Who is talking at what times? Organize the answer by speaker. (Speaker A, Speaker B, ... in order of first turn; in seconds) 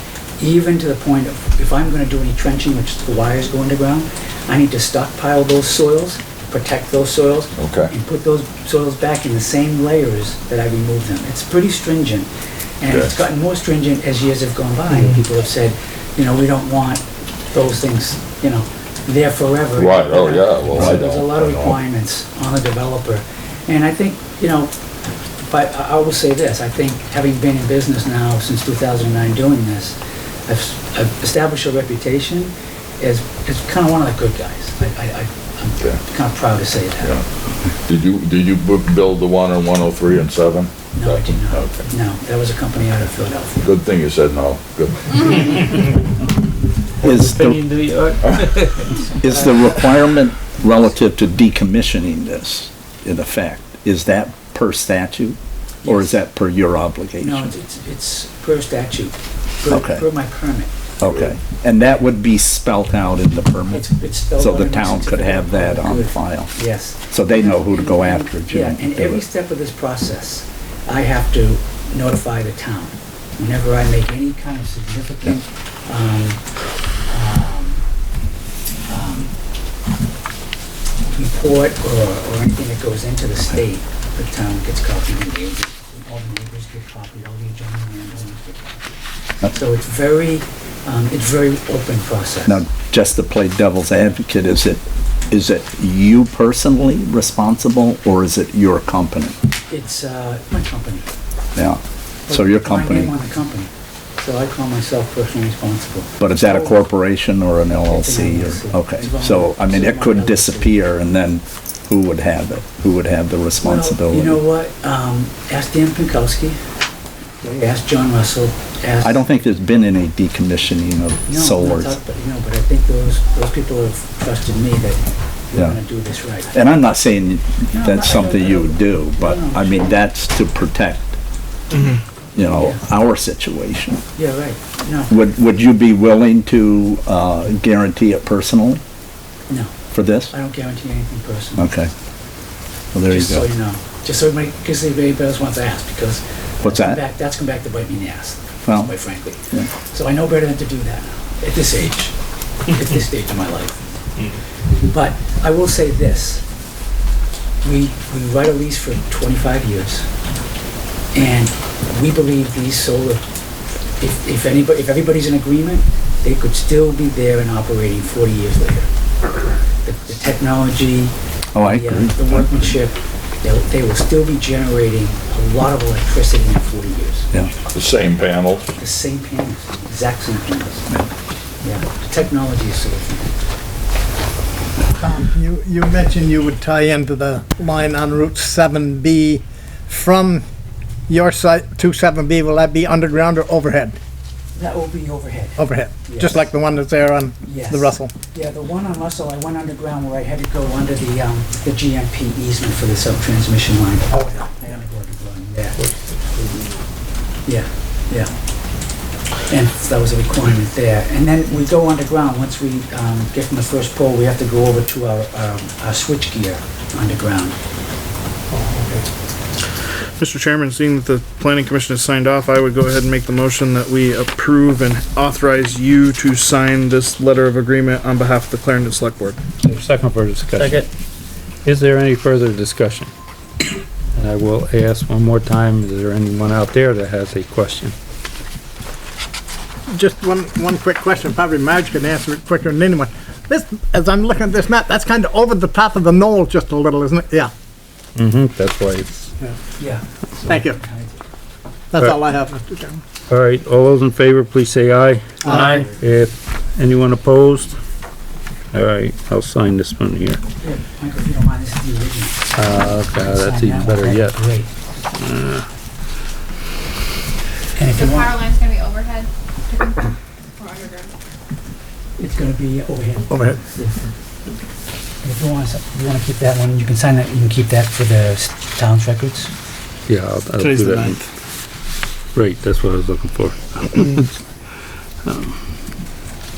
Speaker A: 0.4-12.3, 12.8-24.7, 25.4-37.2, 40.9-43.6, 55.8-56.2, 57.2-60.7, 63.7-76.4, 77.1-77.8, 78.9-79.3, 81.1-88.8, 89.5-92.6, 99.7-101.1, 102.3-106.8, 107.9-110.8, 113.6-116.6, 117.4-119.2, 121.3-126.5, 127.7-129.9, 132.6-132.8, 134.2-135.2, 139.5-139.7, 140.3-141.7, 143.1-152.1, 152.7-153.8, 154.8-156.4, 157.6-160.1, 161.1-163.2, 164.0-168.9, 169.8-177.3, 178.8-180.9, 181.6-183.3, 194.5-196.5, 197.4-205.8, 207.4-208.3, 209.5-217.6, 249.8-251.2, 255.6-255.9, 260.6-264.7, 267.8-268.5, 272.2-274.1, 275.2-279.5
Speaker B: 7.6-7.9, 19.8-21.8, 37.9-41.8, 43.6-45.7, 177.7-178.7
Speaker C: 47.0-47.6, 49.2-57.5, 59.7-60.0, 61.0-63.8, 64.4-66.5, 67.1-69.2, 92.5-99.3, 101.5-103.1, 106.2-114.4, 119.0-122.0, 126.5-131.1, 132.3-134.0, 135.1-138.8, 139.9-140.3, 141.6-141.9, 142.9-143.5, 146.6-147.0, 148.6-148.9, 171.5-172.7
Speaker D: 47.0-48.9, 205.8-206.7, 229.6-230.9, 231.6-233.1, 234.1-237.9, 248.2-249.3, 253.3-257.8, 258.7-260.4, 262.6-264.4, 265.1-265.7, 280.1-281.2, 282.3-284.3, 285.2-285.6
Speaker E: 184.9-190.4, 191.1-194.0, 195.6-198.1, 218.5-219.1, 239.9-247.5, 250.5-250.8, 251.9-253.0, 255.4-255.7, 273.3-273.6
Speaker F: 220.3-229.2
Speaker G: 267.9-271.1